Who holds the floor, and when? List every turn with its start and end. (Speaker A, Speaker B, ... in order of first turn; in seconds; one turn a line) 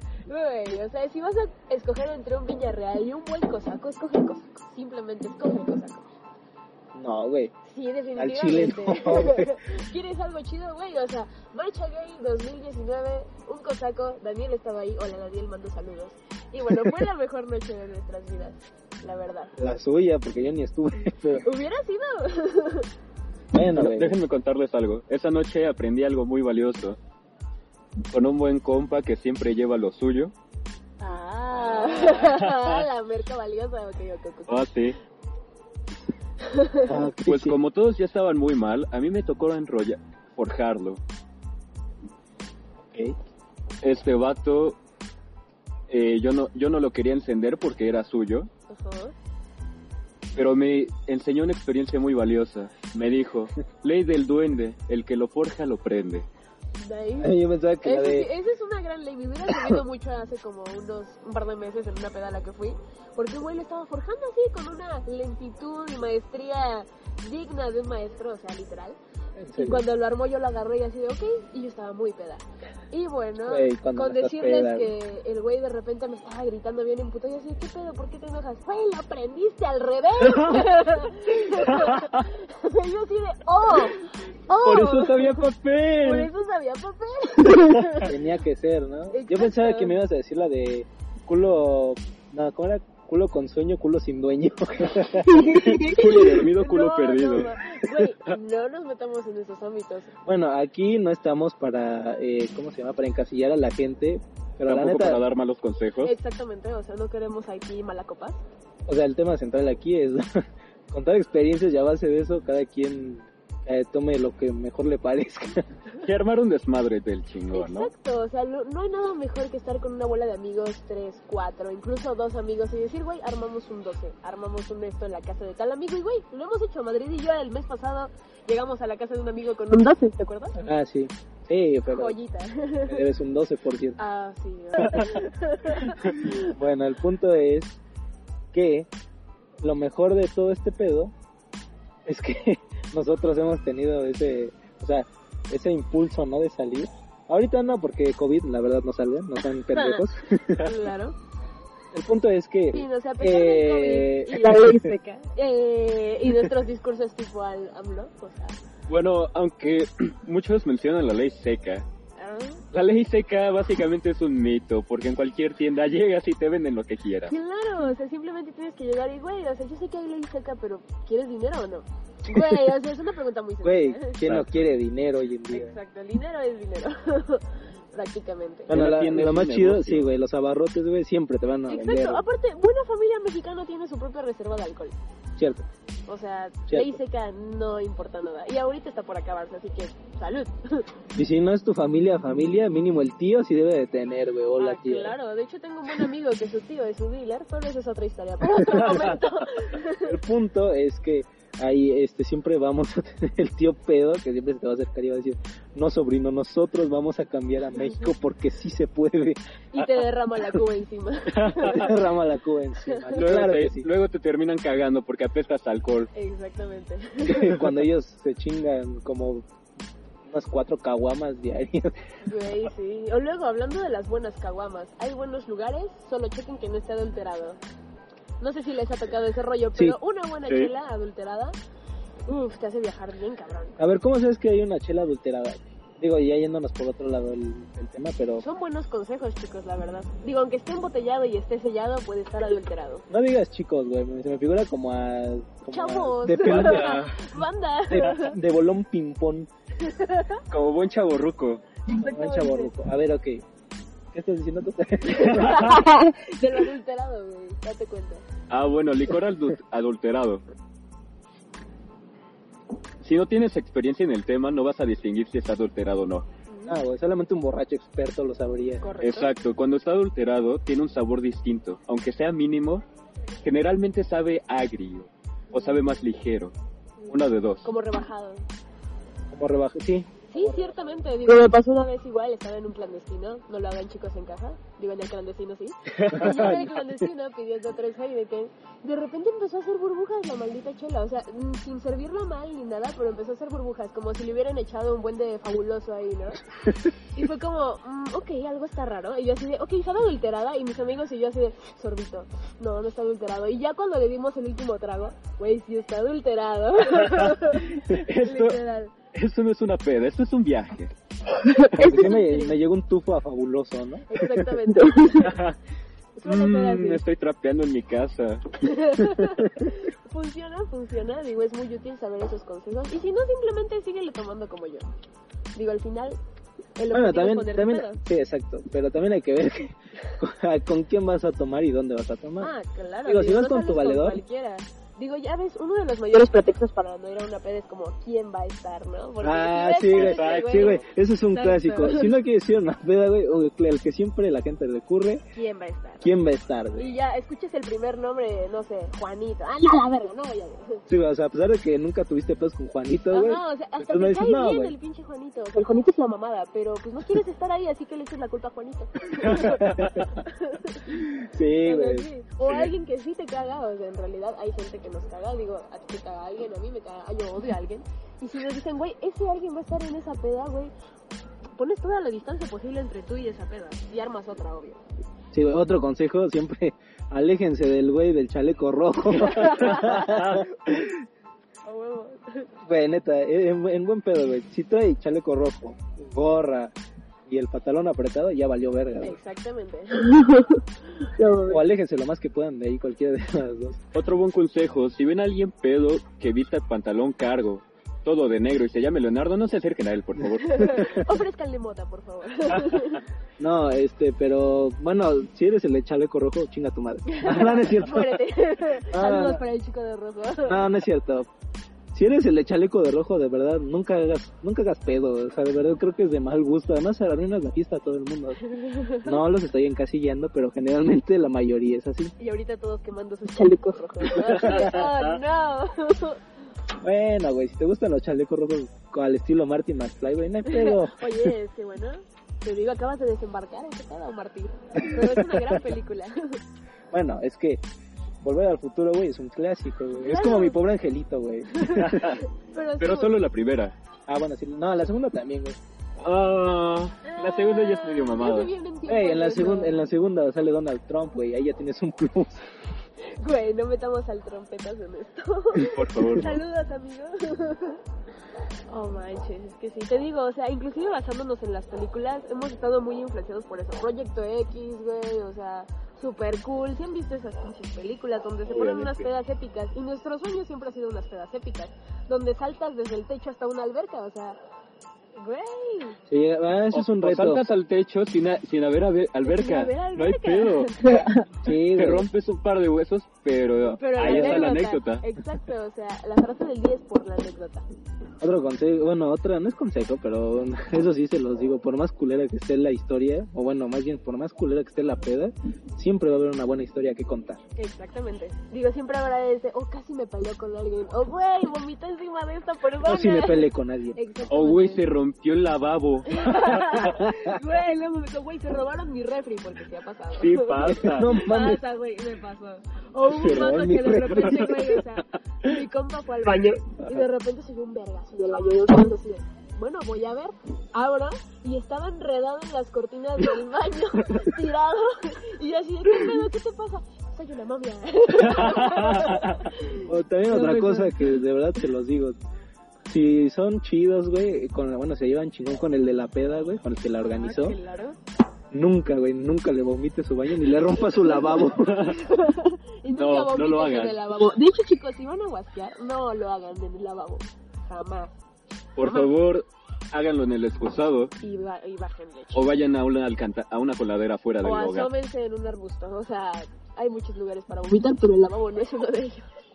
Speaker A: 0.3-6.1
Speaker B: 6.9-7.5
Speaker A: 7.6-19.5
Speaker B: 8.2-9.6
Speaker B: 19.6-21.4
Speaker A: 21.4-22.9
Speaker B: 23.5-24.1
Speaker C: 23.7-27.0
Speaker C: 28.1-30.3
Speaker A: 31.0-34.5
Speaker C: 31.7-32.9
Speaker C: 34.5-35.0
Speaker A: 36.4-36.9
Speaker B: 36.9-37.6
Speaker C: 37.2-41.0
Speaker B: 42.9-43.2
Speaker C: 43.8-44.8
Speaker C: 45.9-48.5
Speaker A: 48.7-49.1
Speaker C: 50.3-56.2
Speaker A: 56.8-69.0
Speaker B: 57.2-58.3
Speaker B: 59.5-59.8
Speaker B: 69.4-69.8
Speaker A: 69.5-85.5
Speaker B: 73.4-74.9
Speaker C: 80.3-80.9
Speaker C: 81.5-82.2
Speaker C: 84.6-86.3
Speaker A: 86.0-88.1
Speaker B: 88.0-95.5
Speaker A: 89.1-90.0
Speaker A: 95.2-100.1
Speaker C: 95.4-98.4
Speaker B: 100.2-105.2
Speaker C: 104.7-106.1
Speaker A: 106.0-108.4
Speaker B: 108.9-115.7
Speaker C: 116.0-117.9
Speaker A: 117.5-130.6
Speaker B: 130.6-132.2
Speaker A: 131.9-133.0
Speaker B: 132.9-134.0
Speaker A: 134.0-136.5
Speaker B: 136.2-137.8
Speaker B: 138.5-138.9
Speaker B: 139.6-141.1
Speaker B: 142.1-150.7
Speaker A: 149.7-150.0
Speaker A: 150.5-151.2
Speaker B: 151.9-154.9
Speaker A: 152.7-158.6
Speaker C: 158.9-161.8
Speaker A: 162.2-162.6
Speaker C: 162.7-167.3
Speaker A: 167.3-174.2
Speaker B: 172.3-172.7
Speaker B: 173.6-175.7
Speaker C: 174.2-174.6
Speaker A: 175.5-178.8
Speaker B: 178.7-182.2
Speaker C: 178.7-180.1
Speaker A: 181.7-184.9
Speaker B: 185.4-185.6
Speaker A: 186.1-190.8
Speaker B: 186.7-187.0
Speaker B: 191.1-195.2
Speaker A: 194.6-200.2
Speaker B: 198.7-199.0
Speaker B: 200.0-209.4
Speaker A: 209.7-211.9
Speaker C: 211.3-211.9
Speaker B: 211.6-213.9
Speaker A: 212.9-213.1
Speaker C: 213.1-216.1
Speaker A: 216.1-217.7
Speaker B: 217.2-219.4
Speaker B: 220.2-222.0
Speaker A: 222.2-227.6
Speaker A: 228.4-231.5
Speaker A: 232.3-233.8
Speaker B: 233.8-238.4
Speaker A: 238.4-243.0
Speaker B: 243.1-247.1
Speaker A: 245.7-248.4
Speaker C: 246.4-247.4
Speaker B: 247.9-249.5
Speaker A: 249.8-250.4
Speaker C: 250.5-251.6
Speaker A: 251.9-252.7
Speaker B: 252.0-253.4
Speaker B: 254.1-255.8
Speaker A: 255.0-258.2
Speaker C: 255.4-255.7
Speaker C: 258.5-260.4
Speaker C: 263.0-266.2
Speaker A: 266.5-266.8
Speaker B: 266.7-268.9
Speaker A: 268.8-269.3
Speaker C: 269.0-272.8
Speaker C: 273.4-276.5
Speaker A: 275.5-275.8
Speaker A: 277.0-278.4
Speaker C: 277.1-277.7
Speaker B: 279.3-280.8
Speaker A: 280.3-296.4
Speaker B: 286.0-286.7
Speaker C: 286.2-286.6
Speaker A: 297.1-308.9
Speaker C: 306.9-308.6
Speaker C: 309.1-310.9
Speaker A: 311.3-312.6
Speaker B: 311.7-314.6
Speaker A: 314.1-315.4
Speaker C: 315.2-315.6
Speaker A: 316.1-317.0
Speaker C: 316.2-318.7
Speaker A: 318.6-324.9
Speaker A: 325.6-326.2
Speaker A: 326.8-328.0
Speaker B: 326.9-332.5
Speaker A: 332.4-342.1
Speaker B: 333.0-334.2
Speaker B: 339.2-345.2
Speaker C: 339.9-340.8
Speaker A: 345.3-346.1
Speaker B: 346.0-346.9
Speaker A: 346.7-350.8
Speaker B: 350.9-354.7
Speaker A: 353.1-360.9
Speaker B: 359.2-360.0
Speaker C: 359.2-360.0
Speaker B: 360.9-362.1
Speaker A: 361.6-370.7
Speaker C: 362.4-362.7
Speaker A: 371.6-374.8
Speaker B: 375.3-381.0
Speaker A: 379.2-380.2
Speaker C: 380.0-380.4
Speaker A: 381.6-382.5
Speaker B: 382.6-386.7
Speaker B: 387.3-389.2
Speaker A: 389.0-391.6
Speaker B: 391.5-393.8
Speaker C: 393.9-401.0
Speaker A: 400.4-403.0
Speaker B: 400.8-401.0
Speaker B: 403.4-408.2
Speaker A: 407.1-410.7
Speaker B: 408.8-409.4
Speaker B: 410.4-411.3
Speaker B: 411.9-418.4
Speaker A: 418.4-419.2
Speaker B: 419.0-422.1
Speaker A: 422.2-426.2
Speaker B: 424.3-424.8
Speaker C: 424.4-425.0
Speaker B: 426.8-431.3
Speaker A: 430.5-436.4
Speaker B: 434.8-435.5
Speaker B: 436.9-437.6
Speaker B: 438.2-442.2
Speaker A: 440.0-440.6
Speaker A: 441.5-443.2
Speaker C: 441.8-442.2
Speaker C: 442.8-443.7
Speaker B: 444.1-445.6
Speaker C: 446.0-448.5
Speaker A: 447.0-449.8
Speaker B: 448.9-452.5
Speaker A: 453.1-457.8
Speaker C: 455.6-456.4
Speaker A: 458.7-474.4
Speaker C: 468.4-469.1
Speaker A: 475.2-476.0
Speaker B: 476.1-477.4
Speaker C: 476.7-480.9
Speaker A: 479.2-481.3
Speaker B: 481.4-482.1
Speaker C: 481.7-485.0
Speaker A: 483.7-487.6
Speaker B: 484.0-484.6
Speaker B: 488.2-497.4
Speaker A: 497.6-504.8
Speaker B: 502.8-504.0
Speaker C: 504.3-506.8
Speaker A: 506.1-531.2
Speaker B: 506.8-507.3
Speaker C: 510.1-511.1
Speaker B: 510.6-511.6
Speaker B: 513.1-514.6
Speaker C: 513.4-514.5
Speaker C: 528.2-529.4
Speaker B: 529.7-532.2
Speaker B: 532.9-537.6
Speaker A: 537.0-538.0
Speaker B: 538.5-541.9
Speaker A: 541.0-548.1
Speaker C: 541.5-542.0
Speaker C: 542.9-544.0
Speaker C: 548.8-551.1
Speaker A: 548.8-549.1
Speaker A: 551.2-552.6
Speaker C: 552.3-554.9
Speaker A: 554.4-559.2